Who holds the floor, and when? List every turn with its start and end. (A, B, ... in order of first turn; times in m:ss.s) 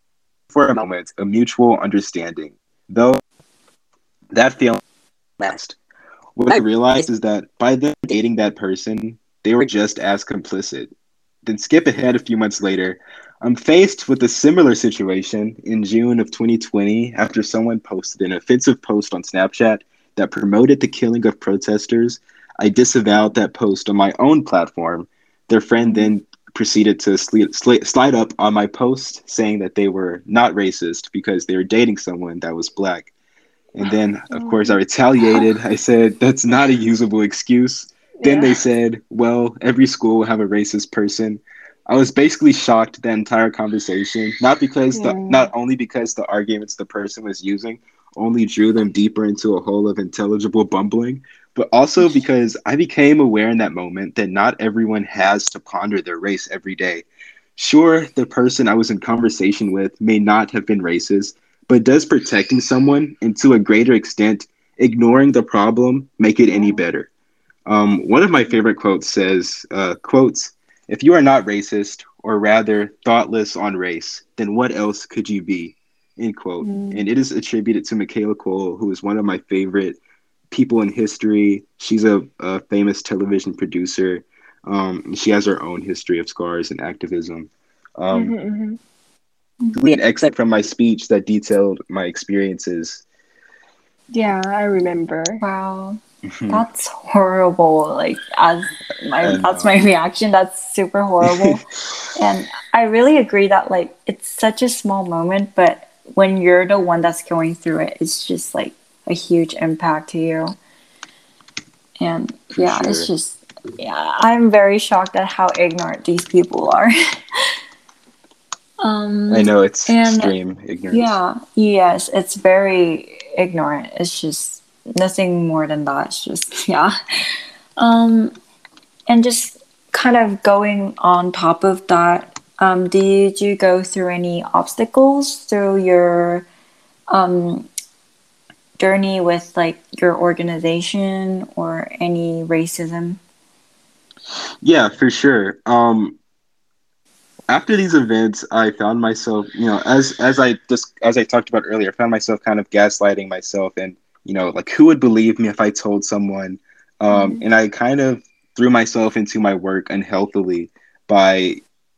0:00.5-0:03.2 A
0:04.3-0:04.8 A
0:05.4-0:05.8 A
0:06.4-0:10.9 A
0:11.4-0:33.1 A
0:25.8-0:26.1 B
0:33.8-0:57.0 A
0:33.8-0:34.8 B
0:38.2-0:38.6 B
0:44.9-0:45.5 B
0:57.6-1:07.1 A
1:06.5-1:06.8 B
1:07.7-1:20.0 A
1:16.6-1:17.0 B
1:20.5-1:28.4 A
1:28.1-1:28.8 B
1:29.7-1:33.0 A
1:34.1-1:35.4 B
1:35.4-1:50.6 C
1:36.3-1:36.6 A
1:39.2-1:39.8 A
1:41.2-1:41.6 A
1:52.0-1:56.9 C
1:52.6-1:53.1 A
1:58.8-2:00.4 C
1:59.3-2:01.2 A
2:00.9-2:06.9 C
2:07.8-2:08.3 C
2:09.1-2:16.5 C
2:17.1-2:17.7 C
2:18.8-2:23.2 C
2:24.6-2:26.2 A
2:27.5-2:41.6 A
2:37.1-2:37.4 B